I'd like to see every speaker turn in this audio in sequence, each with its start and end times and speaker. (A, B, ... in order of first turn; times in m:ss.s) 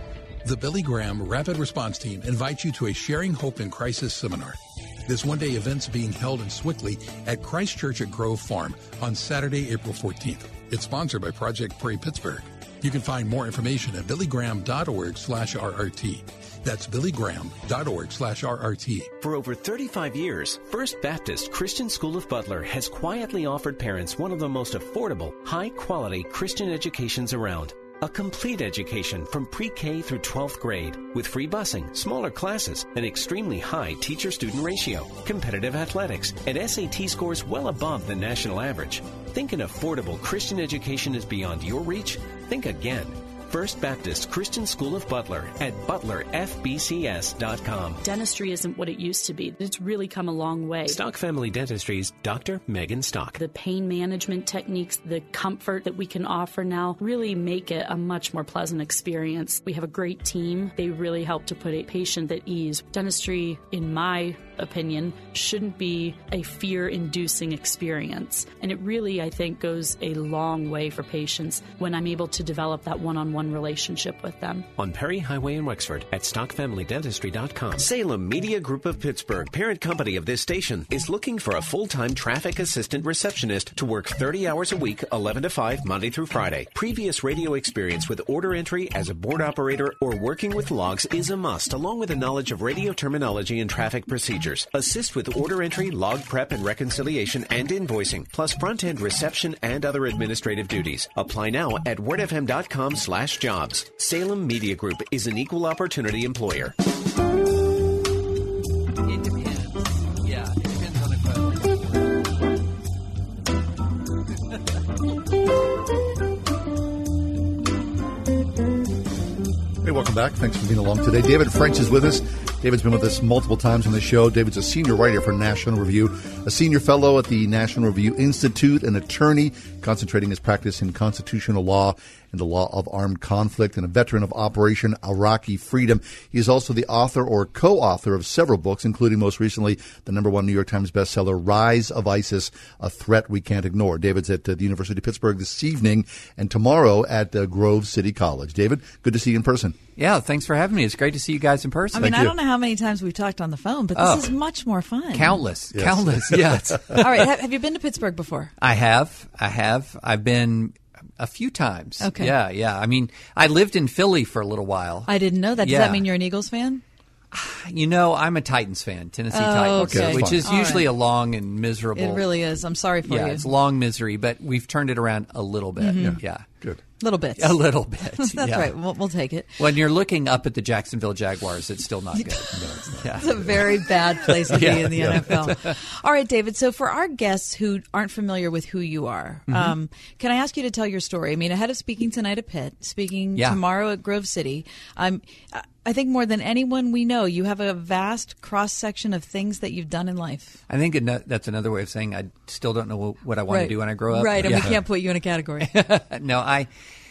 0:00.4-0:19.1 A
0:19.2-0:48.0 B
0:48.0-0:51.0 C
0:50.8-0:53.4 B
0:53.4-1:14.7 C
1:14.8-1:46.7 B
1:49.0-1:52.6 D
1:54.3-1:54.7 D
1:59.8-2:29.8 E
2:30.0-2:32.2 D
2:32.0-2:35.4 F
2:32.0-2:32.4 E
2:34.0-2:34.3 D
2:35.1-2:37.2 D
2:35.7-2:36.9 E
2:37.0-2:38.5 F
2:38.6-2:45.1 D
2:42.0-2:42.3 F
2:45.1-2:46.8 F
2:45.6-2:46.1 D
2:47.3-2:52.2 D
2:49.3-2:50.9 F
2:49.8-2:50.5 E
2:51.9-2:53.5 F
2:53.1-2:56.4 D
2:55.8-2:56.2 F
2:56.0-2:56.8 E
2:57.0-2:57.6 F
2:57.4-2:58.7 D
2:58.2-2:59.5 F
2:59.6-3:03.6 D
3:02.2-3:02.6 F
3:02.6-3:03.5 E
3:03.2-3:20.6 F
3:04.5-3:05.8 D
3:09.5-3:09.8 D
3:20.7-3:24.8 D
3:23.5-3:25.7 F
3:25.6-3:26.7 D